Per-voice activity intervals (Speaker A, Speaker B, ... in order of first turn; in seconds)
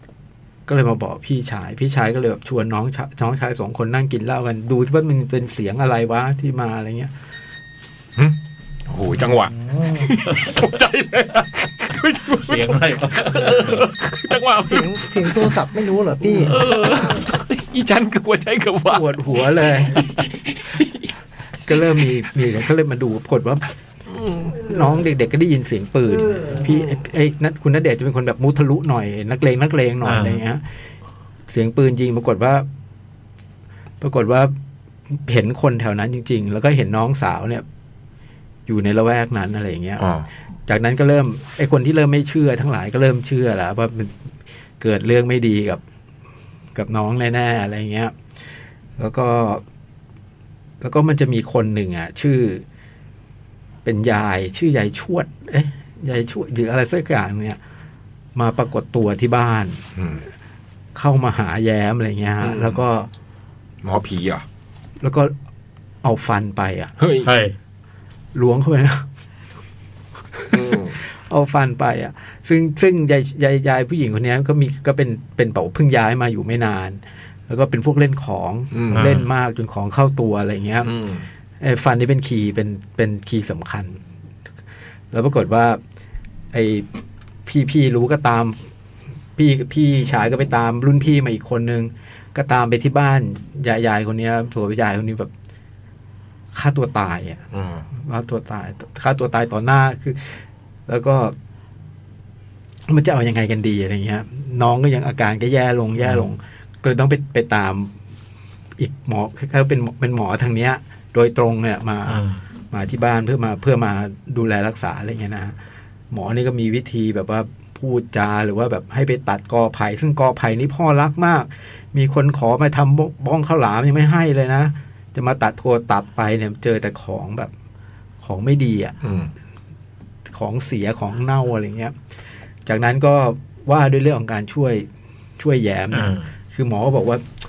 Speaker A: 0.7-7.1, 18.9-20.1, 21.6-23.6, 24.6-30.6, 31.5-32.6, 34.0-34.5, 35.1-37.6, 38.7-40.1, 40.7-44.2, 44.8-45.8, 46.7-48.1, 49.0-49.6, 50.8-52.6, 53.8-57.6, 58.3-59.8, 60.9-63.1, 65.0-65.3, 66.0-66.9, 68.3-69.0, 70.3-80.9, 81.6-84.0, 85.1-85.8, 86.5-86.9, 87.5-88.7, 89.3-95.3, 96.5-101.3, 102.9-107.9, 108.8-115.5, 116.1-127.5, 128.2-128.9, 130.3-131.9, 132.7-137.2
Speaker B: 8.9-15.5, 16.3-19.2, 19.8-21.1, 24.1-24.6, 40.0-40.3, 60.0-60.2, 62.4-62.8, 63.8-64.4, 67.0-67.3, 70.5-71.0, 78.7-79.2, 80.8-81.2, 97.5-97.8, 129.0-129.3
Speaker C: 9.5-10.1, 14.6-16.6, 26.2-26.6
Speaker D: 12.4-13.9, 30.0-30.4, 67.2-67.5, 78.9-79.3, 106.0-106.2, 112.1-112.4, 135.9-136.3